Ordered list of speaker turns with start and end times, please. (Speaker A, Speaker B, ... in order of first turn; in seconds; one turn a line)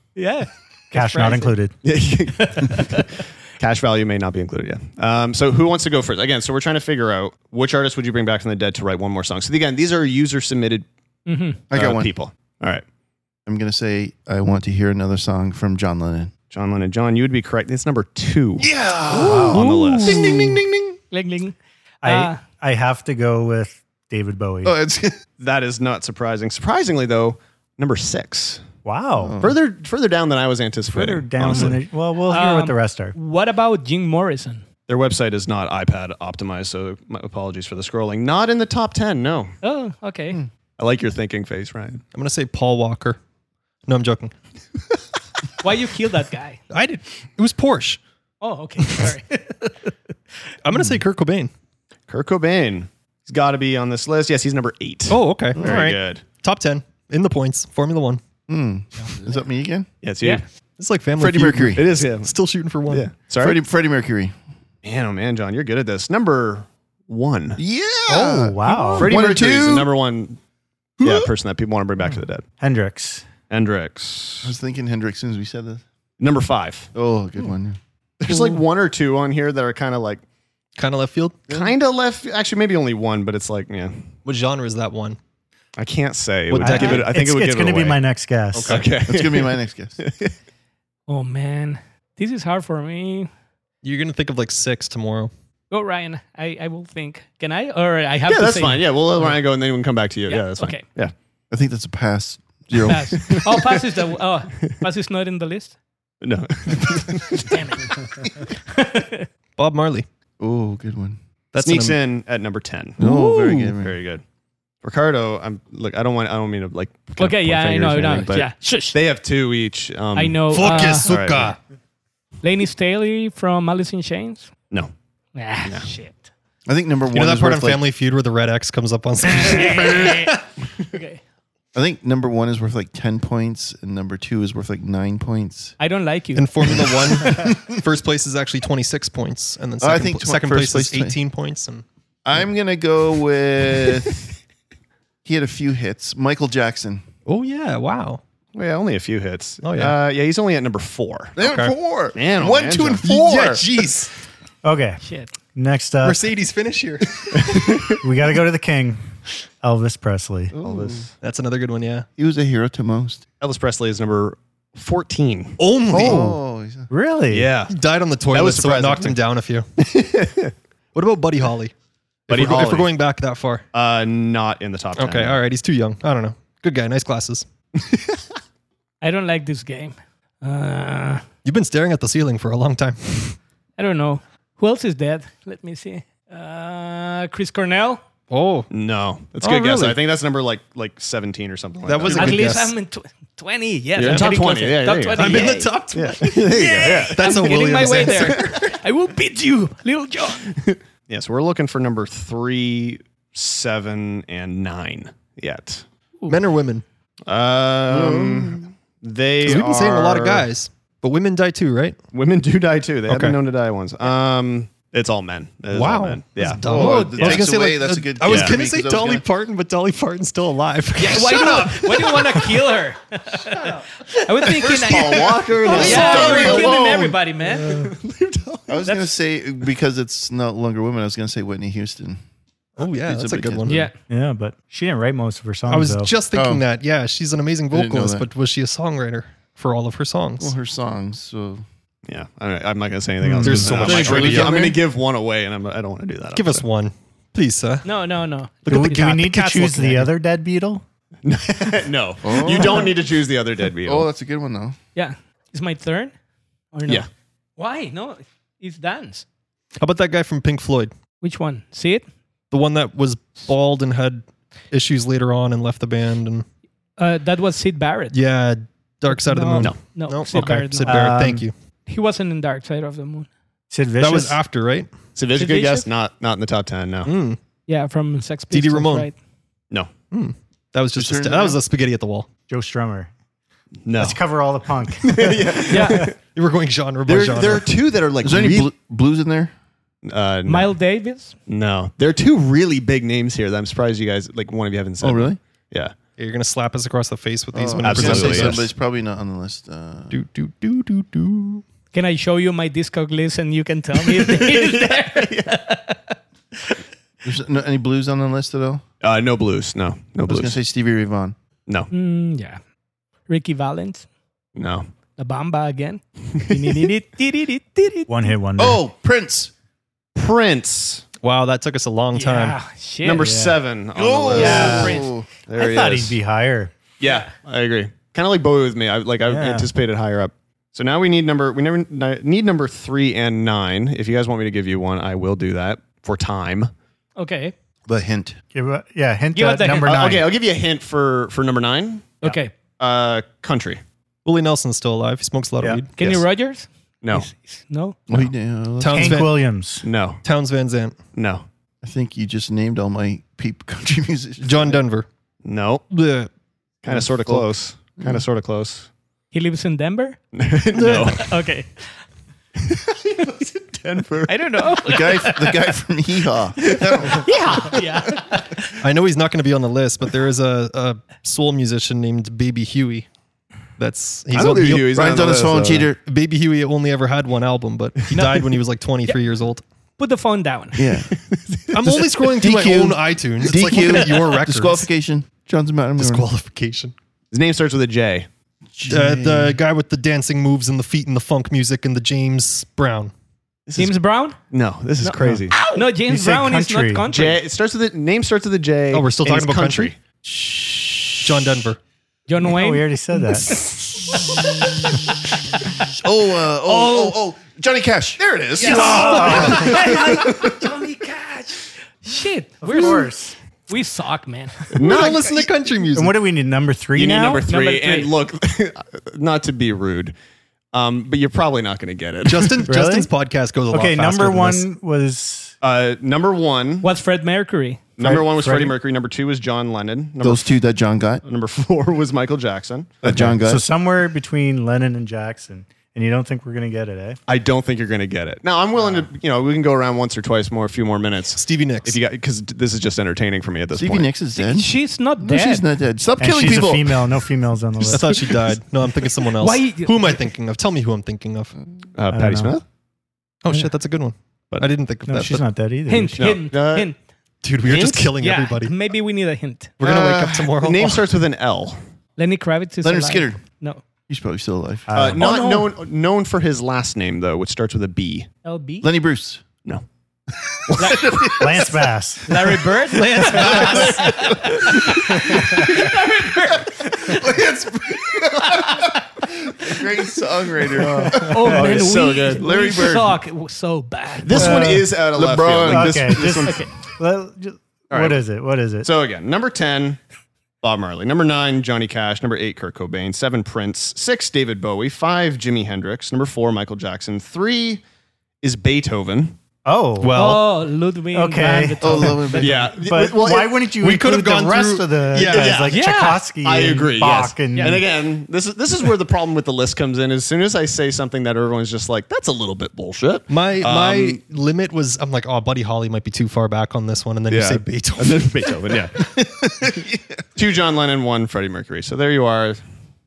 Speaker A: 0.1-1.6
Speaker B: 0.9-1.7
Speaker C: 1.8-10.9
Speaker A: 2.4-3.1
Speaker A: 11.2-11.6
Speaker D: 11.7-12.1
Speaker C: 11.7-12.8
Speaker D: 13.4-16.3
Speaker C: 16.5-20.3
Speaker D: 18.6-21.0
Speaker B: 19.1-19.9
Speaker E: 19.3-20.6
Speaker A: 21.1-22.4
Speaker B: 22.0-24.8
Speaker D: 24.6-25.2
Speaker C: 25.4-28.7
Speaker B: 28.8-29.4
Speaker D: 29.2-29.5
Speaker C: 29.4-31.8
Speaker B: 30.9-33.1
Speaker A: 32.2-34.6
Speaker C: 34.9-39.5
Speaker A: 39.6-40.4
Speaker C: 40.8-42.0
Speaker E: 42.1-43.2
Speaker E: 43.9-44.3
Speaker A: 45.6-46.6
Speaker E: 46.7-48.0
Speaker A: 48.4-49.9
Speaker E: 48.9-49.1
Speaker E: 50.6-51.5
Speaker C: 52.1-56.2
Speaker E: 55.1-58.2
Speaker D: 55.6-55.8
Speaker D: 58.5-59.9
Speaker C: 60.0-60.4
Speaker E: 60.8-63.1
Speaker D: 61.2-61.8
Speaker C: 61.7-62.3
Speaker C: 62.9-63.6
Speaker D: 63.4-64.3
Speaker C: 64.8-67.6
Speaker D: 67.6-69.9
Speaker B: 68.1-69.1
Speaker C: 69.0-70.4
Speaker C: 71.0-72.4
Speaker B: 72.6-73.2
Speaker C: 73.5-74.5
Speaker D: 74.4-75.8
Speaker C: 76.2-76.9
Speaker D: 76.9-77.8
Speaker C: 78.2-80.2
Speaker E: 80.8-81.5
Speaker C: 81.5-84.1
Speaker E: 84.2-85.2
Speaker C: 85.8-88.0
Speaker E: 86.5-87.1
Speaker B: 86.6-88.8
Speaker C: 88.5-90.3
Speaker D: 89.0-90.0
Speaker A: 91.1-93.3
Speaker E: 93.8-95.3
Speaker A: 95.7-98.9
Speaker C: 98.3-101.1
Speaker A: 100.3-100.8
Speaker D: 101.5-103.4
Speaker A: 102.8-105.8
Speaker C: 102.9-103.7
Speaker C: 106.2-107.8
Speaker A: 107.3-109.3
Speaker E: 109.6-110.0
Speaker D: 110.4-111.2
Speaker E: 111.5-112.0
Speaker C: 111.6-113.0
Speaker D: 113.0-113.9
Speaker E: 113.0-113.7
Speaker C: 113.8-114.2
Speaker C: 114.8-121.5
Speaker A: 117.2-119.0
Speaker A: 120.1-121.1
Speaker E: 120.5-121.6
Speaker A: 122.4-124.5
Speaker A: 125.3-126.3
Speaker C: 125.6-125.9
Speaker D: 126.7-127.8
Speaker E: 127.1-130.4
Speaker A: 129.2-131.2
Speaker D: 131.7-135.7
Speaker A: 135.8-136.9
Speaker E: 136.3-141.8
Speaker D: 136.7-137.7
Speaker D: 139.8-141.2
Speaker D: 142.2-144.2
Speaker D: 145.2-147.0
Speaker E: 147.2-148.2
Speaker C: 148.5-151.3
Speaker E: 149.6-149.9
Speaker D: 151.3-153.8
Speaker E: 151.4-151.7
Speaker C: 152.1-153.2
Speaker E: 153.0-154.1
Speaker B: 154.6-155.0
Speaker A: 155.0-155.3
Speaker B: 155.5-156.2
Speaker E: 156.0-157.5
Speaker C: 157.3-158.0
Speaker B: 157.8-159.0
Speaker B: 159.6-160.9
Speaker D: 160.5-161.1
Speaker C: 160.6-161.0
Speaker E: 161.2-162.1
Speaker D: 162.2-163.2
Speaker C: 163.4-165.6
Speaker E: 165.6-166.4
Speaker D: 165.9-166.9
Speaker B: 165.9-166.4
Speaker B: 166.9-167.5
Speaker C: 167.3-167.7
Speaker E: 167.7-169.6
Speaker C: 168.3-169.2
Speaker C: 169.8-170.5
Speaker E: 170.9-171.7
Speaker E: 172.3-173.6
Speaker C: 172.3-172.9
Speaker C: 173.7-175.4
Speaker E: 175.0-177.4
Speaker C: 177.9-178.2
Speaker A: 179.0-181.2
Speaker E: 181.4-183.4
Speaker A: 183.8-188.0
Speaker E: 188.3-188.7
Speaker C: 188.7-192.4
Speaker E: 189.4-190.0
Speaker E: 191.8-192.7
Speaker A: 192.1-200.6
Speaker C: 194.0-198.7
Speaker E: 195.1-198.5
Speaker C: 200.5-205.8
Speaker E: 206.3-206.8
Speaker C: 207.3-210.5
Speaker D: 207.9-208.7
Speaker E: 209.4-212.0
Speaker C: 212.1-217.5
Speaker E: 213.1-213.4
Speaker E: 215.7-222.5
Speaker D: 216.6-219.2
Speaker C: 218.2-218.6
Speaker A: 221.0-227.8
Speaker D: 224.5-227.2
Speaker C: 224.6-226.9
Speaker E: 225.6-226.6
Speaker E: 227.6-227.9
Speaker C: 227.7-228.8
Speaker D: 228.7-232.2
Speaker A: 228.8-229.1
Speaker E: 232.8-233.9
Speaker D: 232.8-233.8
Speaker A: 233.7-233.9
Speaker B: 234.1-236.1
Speaker E: 235.7-240.5
Speaker D: 236.3-236.6
Speaker D: 237.7-238.2
Speaker D: 240.4-241.6
Speaker C: 242.1-246.6
Speaker B: 243.2-243.9
Speaker E: 243.4-244.7
Speaker D: 243.6-244.8
Speaker E: 246.3-247.9
Speaker A: 247.8-248.9
Speaker E: 248.6-250.1
Speaker B: 248.7-250.8
Speaker C: 251.2-254.1
Speaker D: 252.2-252.9
Speaker D: 253.8-254.8
Speaker A: 254.9-256.1
Speaker A: 256.7-257.1
Speaker A: 257.6-259.2
Speaker E: 259.8-260.9
Speaker A: 261.2-262.0
Speaker E: 262.5-266.4
Speaker A: 267.0-268.2
Speaker E: 268.1-271.5
Speaker A: 269.1-271.1
Speaker B: 270.8-271.5
Speaker A: 271.9-273.3
Speaker B: 273.7-274.4
Speaker E: 274.0-274.9
Speaker C: 275.1-277.1
Speaker A: 275.4-275.9
Speaker E: 277.0-277.4
Speaker A: 277.7-279.1
Speaker E: 278.5-279.1
Speaker E: 280.1-282.3
Speaker D: 280.9-281.6
Speaker B: 282.5-283.1
Speaker C: 283.8-284.2
Speaker B: 284.0-286.0
Speaker C: 285.0-286.1
Speaker A: 285.7-286.1
Speaker E: 286.2-287.7
Speaker C: 287.1-288.7
Speaker D: 288.2-289.5
Speaker C: 290.0-290.7
Speaker A: 290.5-291.4
Speaker C: 291.5-295.9
Speaker D: 295.0-295.4
Speaker E: 296.2-298.7
Speaker D: 297.5-300.2
Speaker C: 297.8-298.7
Speaker E: 300.1-301.6
Speaker A: 301.9-306.8
Speaker C: 304.3-305.5
Speaker D: 307.2-308.8
Speaker C: 309.0-310.6
Speaker D: 310.3-311.3
Speaker A: 311.9-312.6
Speaker A: 313.3-314.1
Speaker C: 314.6-314.9
Speaker A: 315.2-318.2
Speaker C: 316.4-316.8
Speaker B: 318.1-318.8
Speaker D: 318.6-319.5
Speaker C: 320.1-321.0
Speaker E: 321.2-322.6
Speaker A: 322.1-323.3
Speaker C: 323.0-326.2
Speaker B: 323.2-323.6
Speaker D: 323.9-325.3
Speaker B: 324.3-326.7
Speaker A: 324.3-325.1
Speaker C: 327.0-336.7
Speaker B: 329.3-329.7
Speaker A: 337.2-337.5
Speaker D: 337.9-338.4
Speaker B: 338.5-340.3
Speaker A: 339.3-340.1
Speaker C: 339.8-342.2
Speaker A: 342.2-342.5
Speaker C: 342.8-343.8
Speaker E: 344.2-345.9
Speaker C: 346.0-346.2
Speaker A: 346.0-348.0
Speaker C: 347.0-347.3
Speaker D: 348.1-349.2
Speaker E: 348.8-349.4
Speaker B: 348.9-349.8
Speaker C: 349.8-350.2
Speaker E: 350.2-351.0
Speaker C: 351.1-351.4
Speaker D: 351.8-354.8
Speaker E: 354.4-355.1
Speaker C: 355.4-355.8
Speaker E: 355.9-356.3
Speaker C: 356.8-358.9
Speaker E: 356.9-357.4
Speaker A: 359.3-360.2
Speaker C: 360.3-361.4
Speaker E: 360.7-361.1
Speaker A: 360.9-361.9
Speaker C: 362.6-364.7
Speaker A: 364.3-365.7
Speaker D: 364.8-367.8
Speaker C: 366.6-367.8
Speaker A: 367.0-368.8
Speaker E: 368.8-373.1
Speaker E: 373.8-374.9
Speaker C: 374.3-375.9
Speaker D: 374.9-376.0
Speaker E: 376.0-379.6
Speaker A: 378.1-378.5
Speaker A: 380.0-381.0
Speaker D: 380.8-381.1
Speaker C: 381.1-382.0
Speaker E: 381.7-384.9
Speaker D: 381.8-386.3
Speaker E: 386.0-386.9
Speaker C: 387.3-388.3
Speaker D: 388.7-389.6
Speaker E: 388.9-393.1
Speaker C: 393.7-393.9
Speaker A: 393.8-394.4
Speaker C: 394.5-395.7
Speaker B: 395.2-395.5
Speaker A: 395.7-397.4
Speaker B: 396.0-397.1
Speaker C: 397.1-401.3
Speaker E: 398.9-399.9
Speaker E: 401.2-401.8
Speaker A: 402.3-402.9
Speaker B: 402.4-403.6
Speaker E: 403.4-404.3
Speaker A: 403.5-404.6
Speaker D: 406.0-410.5
Speaker C: 408.2-409.9
Speaker A: 408.6-413.1
Speaker B: 408.6-410.2
Speaker E: 408.9-409.7
Speaker B: 412.6-413.3
Speaker A: 413.7-414.7
Speaker C: 414.7-415.5
Speaker E: 414.8-416.1
Speaker B: 415.9-417.4
Speaker C: 416.9-420.1
Speaker A: 417.5-418.1
Speaker C: 420.7-422.7
Speaker E: 422.2-424.6
Speaker B: 422.7-423.1
Speaker B: 423.7-425.5
Speaker C: 425.6-426.9
Speaker A: 426.8-427.8
Speaker C: 428.0-430.6
Speaker B: 428.0-428.8
Speaker D: 430.2-431.2
Speaker C: 431.2-433.3
Speaker D: 433.0-433.6
Speaker B: 433.1-437.2
Speaker C: 437.3-444.1
Speaker E: 441.3-442.0
Speaker D: 443.7-447.1
Speaker A: 444.4-445.7
Speaker B: 446.2-448.4
Speaker E: 447.9-451.5
Speaker A: 449.4-450.2
Speaker C: 451.9-452.6
Speaker B: 452.1-452.6
Speaker E: 453.4-455.4
Speaker B: 455.1-456.3
Speaker A: 455.9-456.9
Speaker C: 456.2-456.9
Speaker E: 457.4-458.7
Speaker C: 457.6-458.1
Speaker A: 458.2-459.7
Speaker E: 459.8-461.1
Speaker D: 459.8-460.3
Speaker C: 459.9-461.8
Speaker A: 462.2-463.8
Speaker D: 462.8-463.4
Speaker D: 464.1-464.9
Speaker B: 464.9-465.4
Speaker C: 464.9-468.3
Speaker A: 465.2-465.7
Speaker A: 468.4-468.9
Speaker D: 468.8-469.4
Speaker C: 470.5-471.5
Speaker A: 470.8-471.3
Speaker D: 470.8-471.3
Speaker B: 471.4-472.6
Speaker A: 472.3-477.3
Speaker D: 473.2-475.9
Speaker C: 473.3-475.2
Speaker D: 476.8-481.7
Speaker A: 478.4-478.9
Speaker C: 480.8-482.5
Speaker B: 480.9-481.6
Speaker A: 481.1-484.5
Speaker D: 482.3-483.2
Speaker C: 484.2-486.6
Speaker B: 484.3-484.9
Speaker D: 484.3-486.4
Speaker B: 485.6-488.9
Speaker A: 486.4-486.7
Speaker C: 487.9-488.2
Speaker C: 488.8-490.0
Speaker C: 490.6-497.8
Speaker C: 498.4-499.4
Speaker B: 499.6-500.4
Speaker E: 500.0-500.4
Speaker A: 500.1-502.6
Speaker B: 501.1-507.8
Speaker D: 501.8-502.7
Speaker C: 502.4-503.6
Speaker E: 503.8-505.7
Speaker C: 505.3-505.9
Speaker A: 505.7-506.2
Speaker C: 506.4-514.2
Speaker E: 513.3-518.8
Speaker C: 517.3-519.1
Speaker D: 519.6-520.2
Speaker C: 520.4-522.6